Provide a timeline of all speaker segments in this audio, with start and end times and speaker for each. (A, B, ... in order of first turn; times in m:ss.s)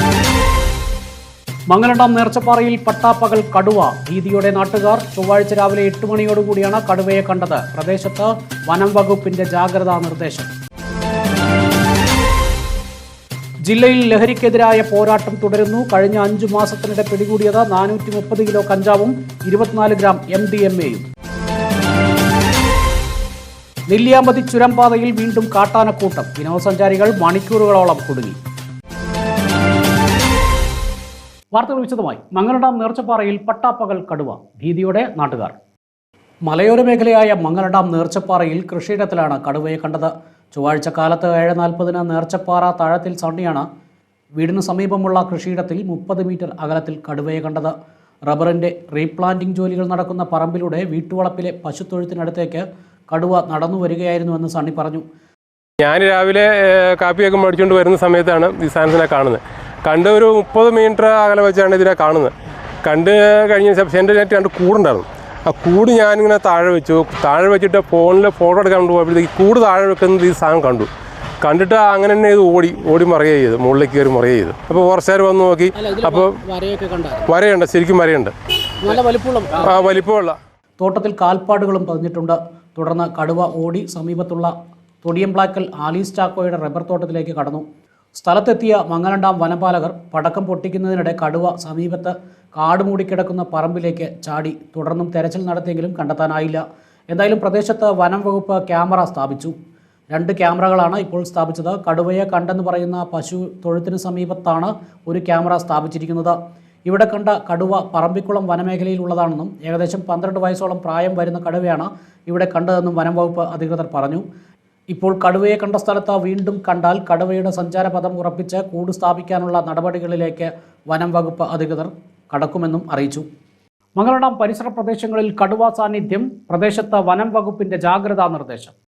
0:01.7-0:10.5 A
0:13.6-0:21.1 A
0:23.9-0:28.4 A
0:31.5-0:35.6 A
0:36.5-0:43.7 A
0:44.4-0:47.7 A
0:48.3-0:55.0 A
0:55.8-1:02.3 B
1:02.8-1:10.9 B
1:11.4-1:16.3 B
1:15.8-1:17.3 A
1:17.3-1:18.3 B
1:18.8-1:19.8 A
1:19.6-1:20.4 B
1:20.8-1:39.5 A
1:40.1-1:54.2 A
1:54.9-2:03.2 A
2:04.0-2:08.7 A